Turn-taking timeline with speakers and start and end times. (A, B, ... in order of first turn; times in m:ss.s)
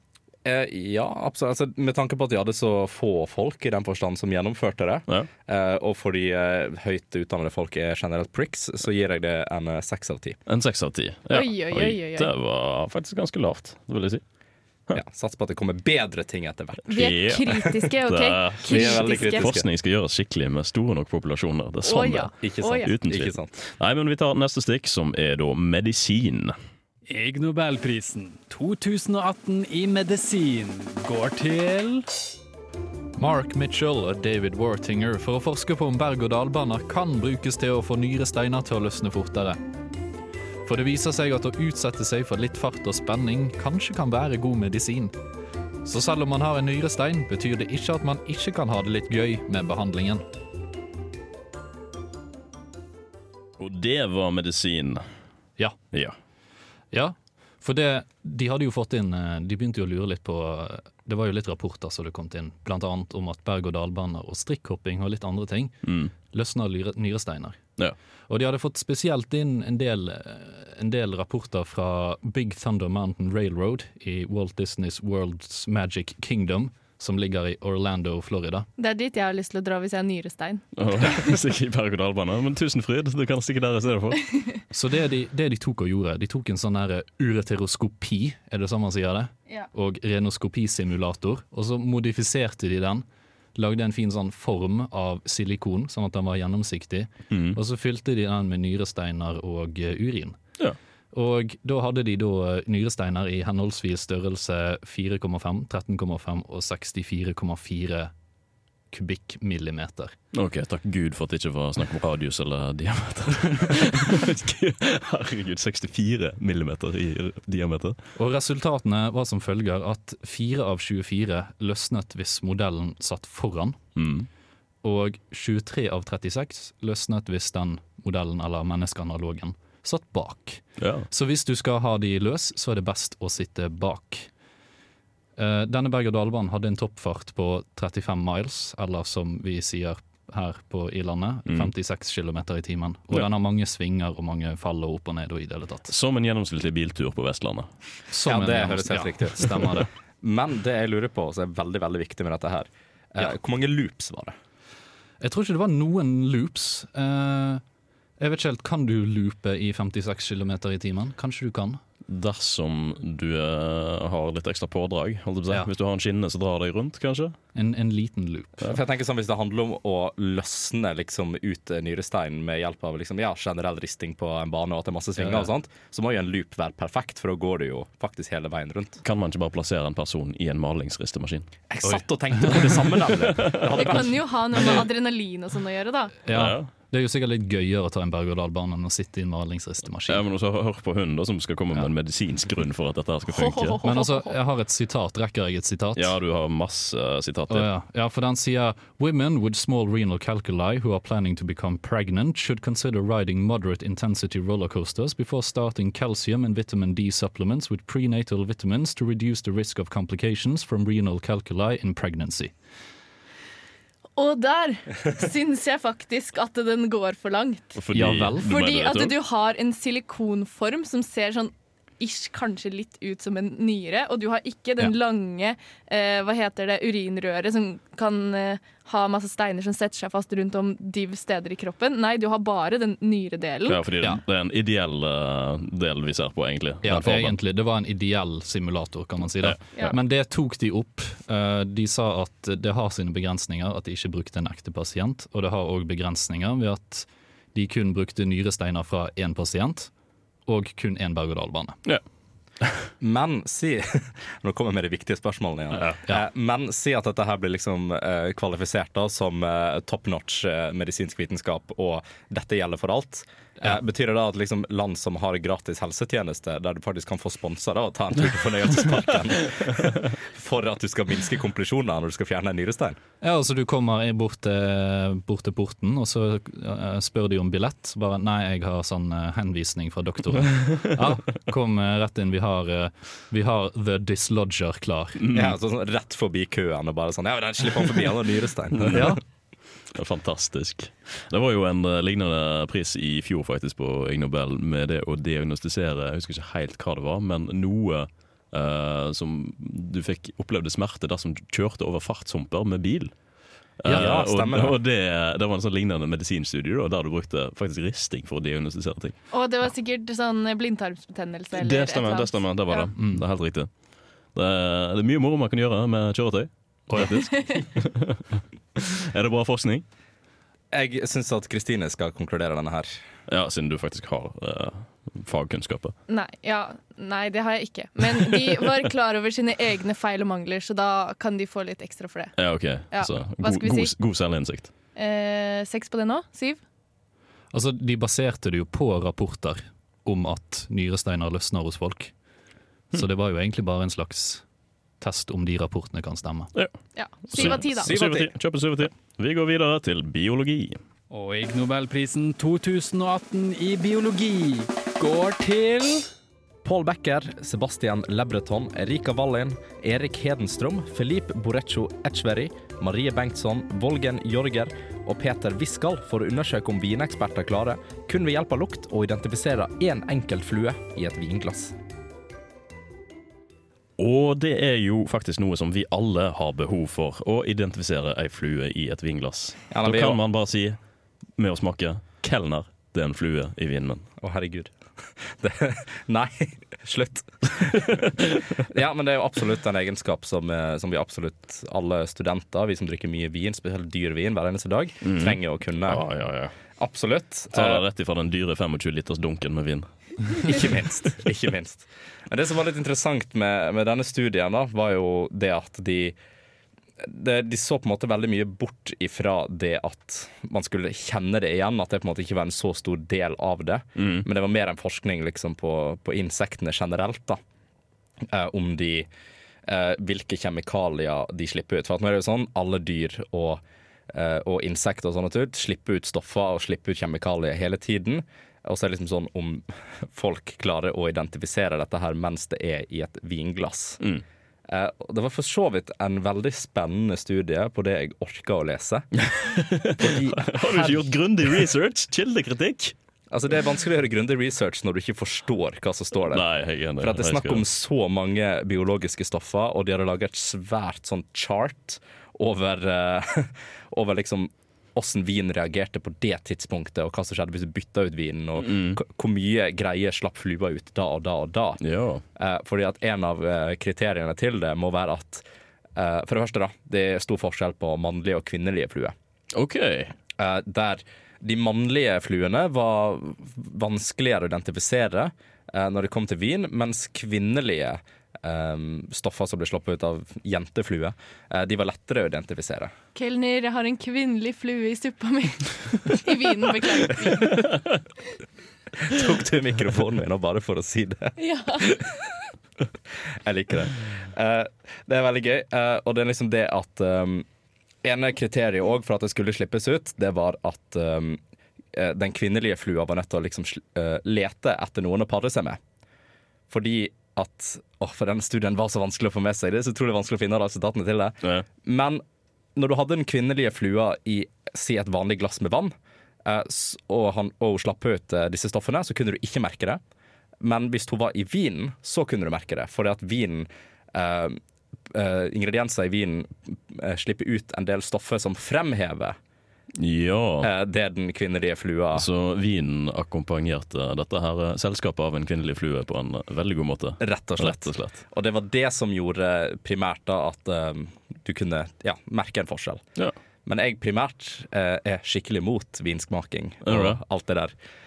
0:00.4-0:10.4 A
0:10.5-0:14.2 B
0:11.3-0:12.3 C
0:14.9-0:17.0 A
0:16.9-0:19.5 C
0:16.9-0:26.5 B
0:18.7-0:19.6 A
0:21.8-0:22.9 C
0:22.4-0:23.5 A
0:27.0-0:32.1 D
0:33.2-0:39.6 E
0:40.6-0:45.1 E
0:45.8-0:50.2 E
0:53.6-0:55.0 B
0:56.9-1:05.8 E
1:05.8-1:06.1 B
1:06.3-1:07.6 E
1:08.3-1:18.7 E
1:18.8-1:21.1 C
1:20.8-1:24.2 B
1:24.7-1:40.4 E
1:37.3-1:37.6 B
1:41.1-1:48.1 E
1:48.9-1:50.1 E
1:50.3-1:58.0 B
1:58.2-2:03.8 E
2:04.0-2:04.3 B
2:04.8-2:14.3 E
2:10.8-2:11.1 B
2:15.4-2:25.9 E
2:25.9-2:27.7 B
2:28.1-2:29.9 E
2:28.2-2:29.6 A
2:30.2-2:34.4 A
2:35.2-2:37.6 E
2:38.2-2:41.8 E
2:42.1-2:47.4 B
2:47.5-2:48.6 E
2:48.6-2:59.0 A
2:55.2-2:55.5 E
2:59.0-3:01.5 B
3:01.7-3:04.2 A
3:01.9-3:02.6 E
3:03.3-3:03.9 B
3:03.8-3:06.2 C
3:04.5-3:04.8 E
3:06.2-3:10.2 E
3:06.3-3:06.7 B
3:10.1-3:13.8 B
3:13.3-3:14.3 C
3:13.8-3:16.2 E
3:16.0-3:17.7 B
3:17.5-3:32.5 E
3:34.2-3:37.8 C
3:37.8-3:39.2 B
3:37.9-3:38.5 E
3:38.4-3:53.8 C
3:53.6-3:57.4 B
3:56.8-4:09.9 E
3:59.4-3:59.9 B
4:10.5-4:11.8 E
4:13.0-4:33.0 A
4:33.2-4:45.2 E
4:45.2-4:45.5 B
4:45.3-4:49.0 A
4:48.8-4:49.1 B
4:48.9-4:49.2 E
4:49.9-5:03.1 B
5:03.8-5:09.2 B
5:03.8-5:04.2 E
5:03.9-5:04.8 A
5:09.3-5:12.9 C
5:11.5-5:13.7 B
5:13.0-5:13.2 E
5:14.3-5:18.2 B
5:16.9-5:17.2 E
5:18.8-5:19.8 B
5:20.7-5:22.9 A
5:23.3-5:25.9 B
5:26.1-5:32.4 C
5:32.4-5:34.7 B
5:32.9-5:33.9 C
5:35.0-5:36.6 C
5:37.5-5:42.1 E
5:42.9-5:44.4 E
5:45.0-5:46.5 E
5:47.0-5:47.9 C
5:47.3-5:50.8 B
5:47.8-5:48.3 A
5:51.1-5:56.1 D
5:56.6-6:11.7 A
6:14.0-6:20.8 B
6:19.7-6:20.2 A
6:21.4-6:24.0 B
6:24.2-6:36.0 A
6:35.0-6:36.5 B
6:36.8-6:37.8 A
6:37.5-6:40.5 B
6:40.4-6:46.2 A
6:47.0-6:57.4 A
6:54.0-6:54.2 B
6:58.3-6:59.1 A
6:59.6-7:14.0 A
7:14.7-7:19.1 A
7:19.2-7:22.9 B
7:20.0-7:21.1 A
7:23.3-7:26.4 A
7:26.3-7:27.6 B
7:27.0-7:41.8 A
7:38.6-7:39.0 B
7:41.8-7:42.2 B
7:42.4-7:45.4 A
7:46.0-7:49.1 A
7:49.5-7:50.1 B
7:50.4-8:02.9 A
8:03.1-8:07.7 C
8:09.0-8:12.0 A
8:11.4-8:12.0 C
8:13.4-8:17.4 A
8:18.0-8:21.4 A
8:21.9-8:25.8 A
8:26.7-8:32.2 A
8:32.8-8:35.9 A
8:36.4-8:40.0 A
8:40.6-8:44.6 A
8:45.1-8:49.4 A
8:50.0-8:50.7 B
8:50.6-8:52.2 A
8:52.1-8:58.2 B
8:57.2-9:03.0 A
9:03.6-9:07.7 A
9:06.8-9:07.2 B